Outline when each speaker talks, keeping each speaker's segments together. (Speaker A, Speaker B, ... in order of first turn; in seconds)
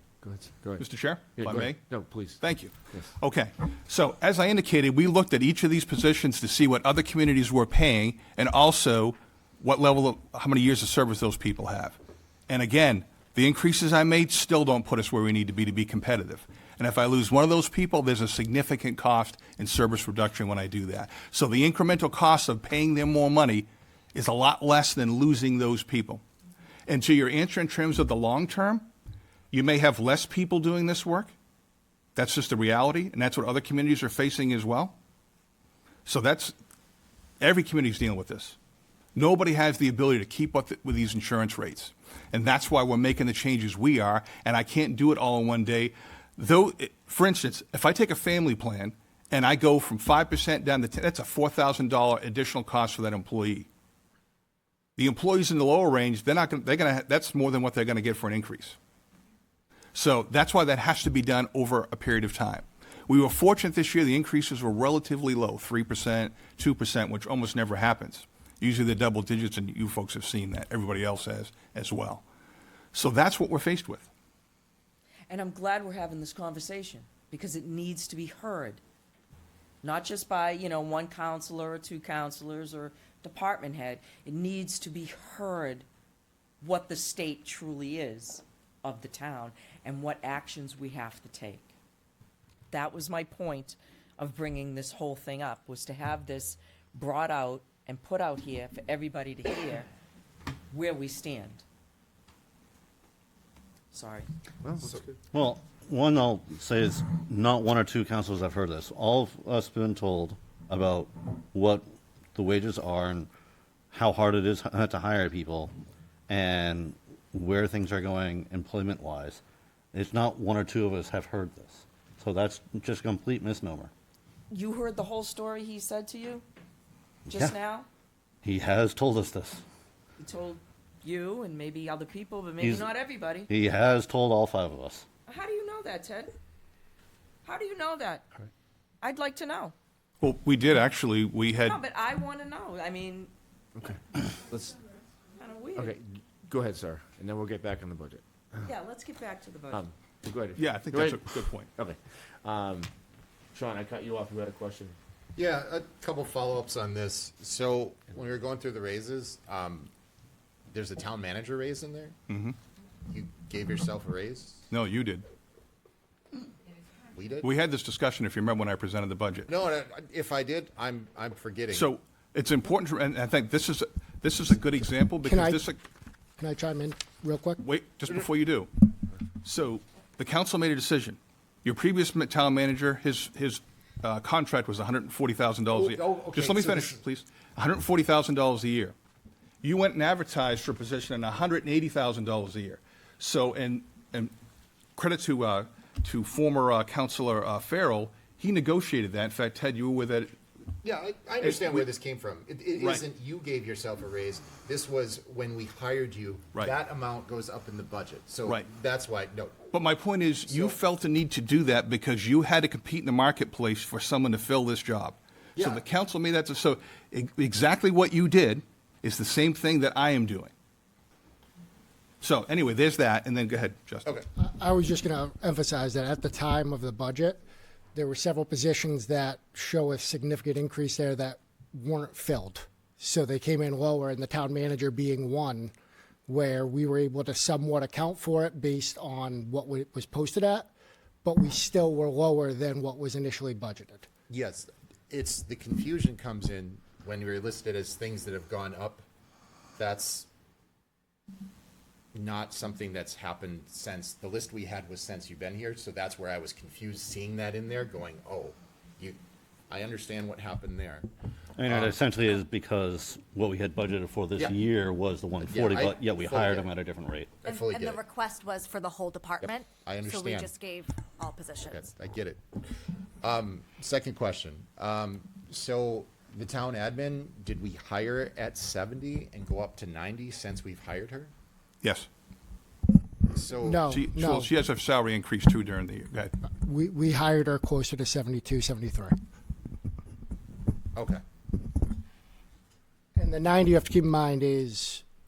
Speaker A: 0.2-3.1, 104.6-104.9, 143.8-144.8, 145.7-148.7, 149.7-152.9, 153.5-155.0
Speaker B: 0.8-1.9, 2.4-12.0, 12.5-26.2, 26.9-28.9, 29.5-31.3, 32.1-35.0, 36.0-36.5, 37.4-38.6, 39.1-53.7, 55.0-58.8, 59.9-72.2, 72.9-74.1, 140.2-141.8, 150.6-151.7, 162.3-162.6, 164.7-165.2, 167.4-169.5, 171.7-175.8, 177.6-178.7, 179.4-188.9, 189.6-194.3, 195.0-200.3, 201.4-201.9, 202.8-203.0, 209.7-220.5, 222.2-224.2, 281.8-282.1, 283.9-286.3
Speaker C: 75.3-78.8, 79.8-85.9, 86.6-91.7, 92.7-99.9, 100.7-101.6, 103.9-104.3, 124.5-126.4, 127.3-127.9, 130.2-133.5, 135.3-136.3, 137.4-138.2, 139.0-139.7, 141.6-143.3, 145.4-146.0, 148.6-149.9
Speaker D: 104.8-105.1, 155.3-159.9, 160.7-162.2, 163.1-164.6, 167.1-167.5, 169.5-171.9, 185.7-187.0, 200.8-209.6, 210.5-210.8, 215.6-215.8, 244.3-249.0, 249.8-250.3, 252.1-259.2, 259.7-261.1, 261.7-262.0, 265.4-266.7, 267.4-268.0, 269.4-270.5, 271.6-272.6, 273.2-281.3, 283.3-283.9, 290.9-291.2
Speaker E: 105.3-113.3, 113.9-115.7, 116.3-119.4, 119.9-123.9, 127.3-127.5, 128.4-129.6, 132.6-132.9, 133.5-135.0, 261.6-267.3
Speaker F: 175.2-175.7, 176.4-177.6, 224.4-227.4, 227.9-235.7, 236.3-240.7, 241.2-244.1, 283.6-284.5, 286.5-289.1, 293.1-295.0
Speaker G: 267.4-271.8